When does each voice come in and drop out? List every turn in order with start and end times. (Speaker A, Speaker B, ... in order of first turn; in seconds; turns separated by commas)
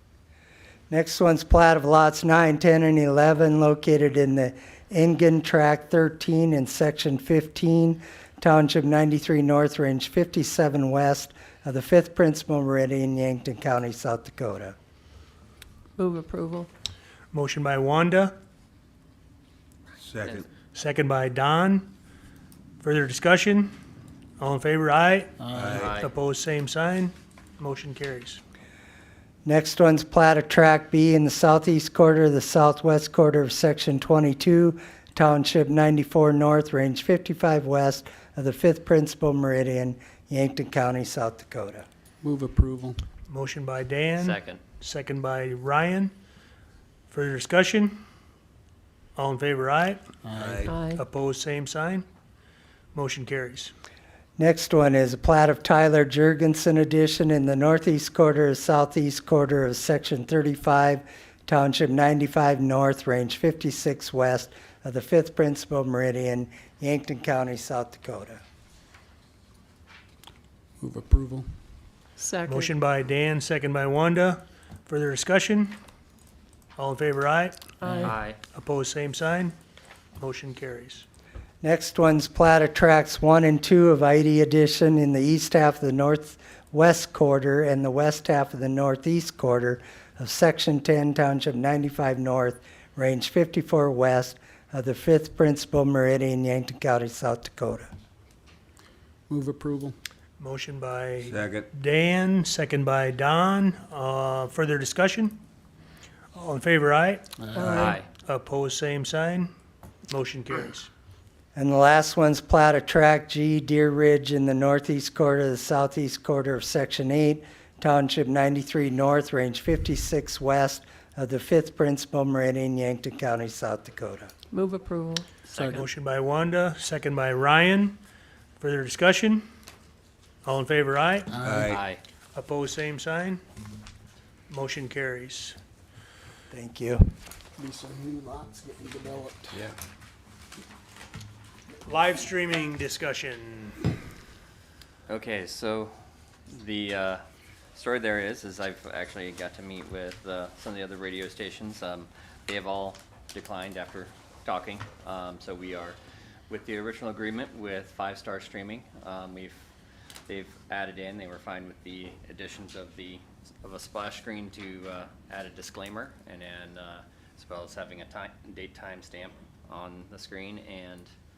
Speaker A: 0.9-14.8, Speaker B: 16.0-16.7, Speaker C: 17.3-18.4, Speaker D: 20.0-20.5, Speaker C: 20.7-21.9, Speaker C: 22.8-23.7, Speaker C: 24.4-28.4, Speaker E: 25.4-25.8, Speaker D: 25.5-26.0, Speaker F: 25.8-26.1, Speaker A: 29.4-41.9, Speaker E: 42.2-43.0, Speaker C: 43.3-46.1, Speaker F: 44.2-44.6, Speaker C: 47.1-48.0, Speaker C: 49.2-50.0, Speaker E: 50.3-50.7, Speaker D: 50.3-50.7, Speaker B: 50.6-51.0, Speaker C: 50.9-52.1, Speaker C: 52.9-53.7, Speaker A: 54.4-68.4, Speaker E: 70.8-71.5, Speaker B: 72.2-72.7, Speaker C: 72.5-75.8, Speaker C: 76.8-79.5, Speaker B: 77.8-78.2, Speaker F: 78.0-78.4, Speaker C: 80.2-81.1, Speaker A: 81.6-97.9, Speaker E: 99.3-100.0, Speaker C: 100.4-105.4, Speaker D: 101.2-101.7, Speaker C: 106.3-109.5, Speaker E: 107.4-107.8, Speaker D: 107.6-108.0, Speaker F: 107.7-108.1, Speaker C: 110.1-110.9, Speaker A: 111.5-124.3, Speaker B: 124.5-125.8, Speaker F: 125.5-125.8, Speaker E: 125.5-125.8, Speaker C: 125.7-128.0, Speaker C: 128.6-129.5, Speaker C: 130.4-131.3, Speaker E: 131.3-131.7, Speaker D: 131.4-131.9, Speaker F: 131.7-132.0, Speaker C: 132.3-133.4, Speaker C: 134.5-135.6, Speaker A: 136.5-137.1, Speaker E: 137.6-139.7, Speaker C: 141.9-143.8, Speaker F: 145.1-146.0, Speaker F: 146.5-147.2, Speaker F: 147.8-156.0, Speaker F: 156.5-159.6, Speaker F: 160.3-171.1